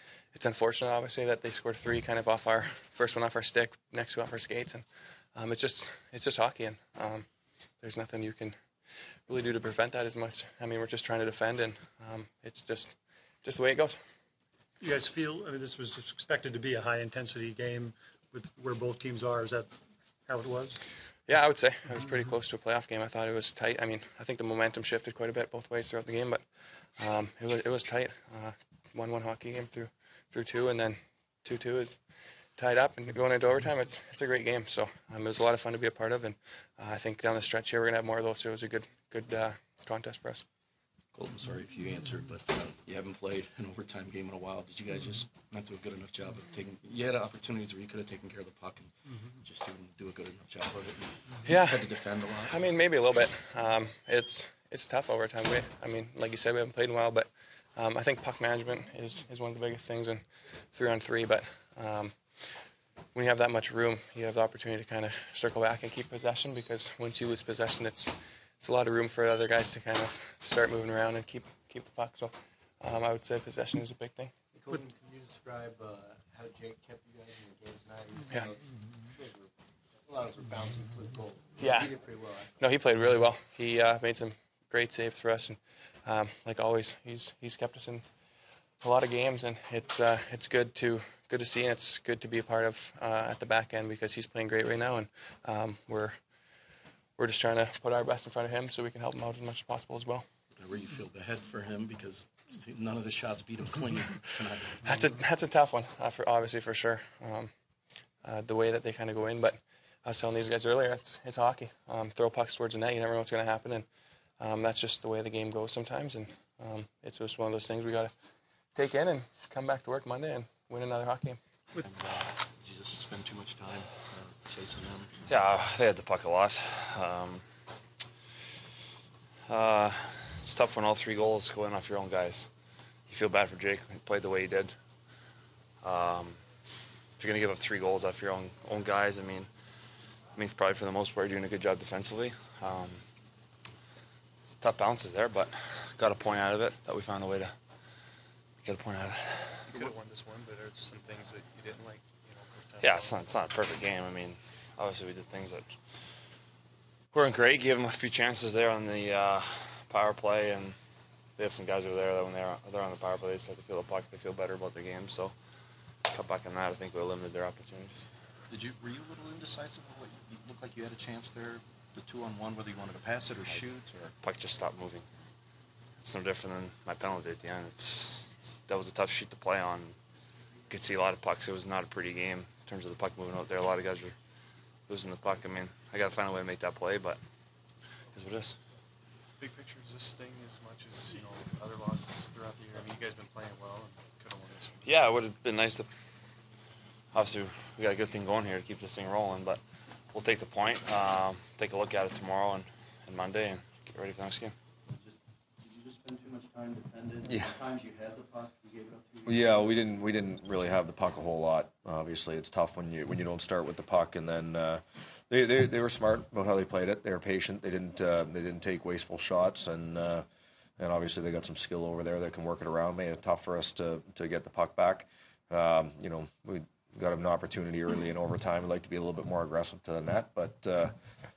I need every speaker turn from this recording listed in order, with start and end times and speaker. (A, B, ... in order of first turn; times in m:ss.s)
0:00.3-0:07.3 A
0:07.8-0:08.6 A
0:09.2-0:14.0 A
0:14.8-0:19.7 B
0:20.3-0:20.8 B
0:21.3-0:26.4 A
0:27.0-0:32.0 A
0:32.6-0:40.4 A
0:41.1-0:52.6 C
0:51.4-1:02.5 A
1:03.1-1:14.3 A
1:14.5-1:22.7 D
1:21.6-1:21.9 A
1:22.6-1:28.0 A
1:28.8-1:36.2 A
1:37.2-1:40.3 A
1:40.6-1:45.1 C
1:44.8-1:47.5 A
1:48.2-1:53.9 A
1:54.4-1:58.1 A
1:58.7-2:01.4 A
2:01.8-2:05.1 C
2:05.3-2:07.4 E
2:09.5-2:12.5 E
2:13.1-2:14.7 E
2:15.8-2:16.4 E
2:17.2-2:19.5 E
2:20.4-2:23.0 E
2:24.6-2:27.6 E
2:28.6-2:29.9 E
2:29.7-2:33.3 F
2:32.8-2:35.7 E
2:37.1-2:40.8 E
2:41.4-2:45.3 E
2:46.1-2:48.0 E
2:48.5-2:54.1 C
2:54.2-2:55.0 E
2:56.0-3:00.0 E
3:00.7-3:04.2 E
3:04.9-3:07.2 E
3:08.1-3:08.6 E
3:09.4-3:15.0 F
3:14.8-3:15.9 E
3:17.1-3:19.6 E
3:20.1-3:24.5 E
3:24.9-3:29.8 D
3:27.2-3:27.5 G
3:29.2-3:40.2 G
3:40.8-3:50.9 G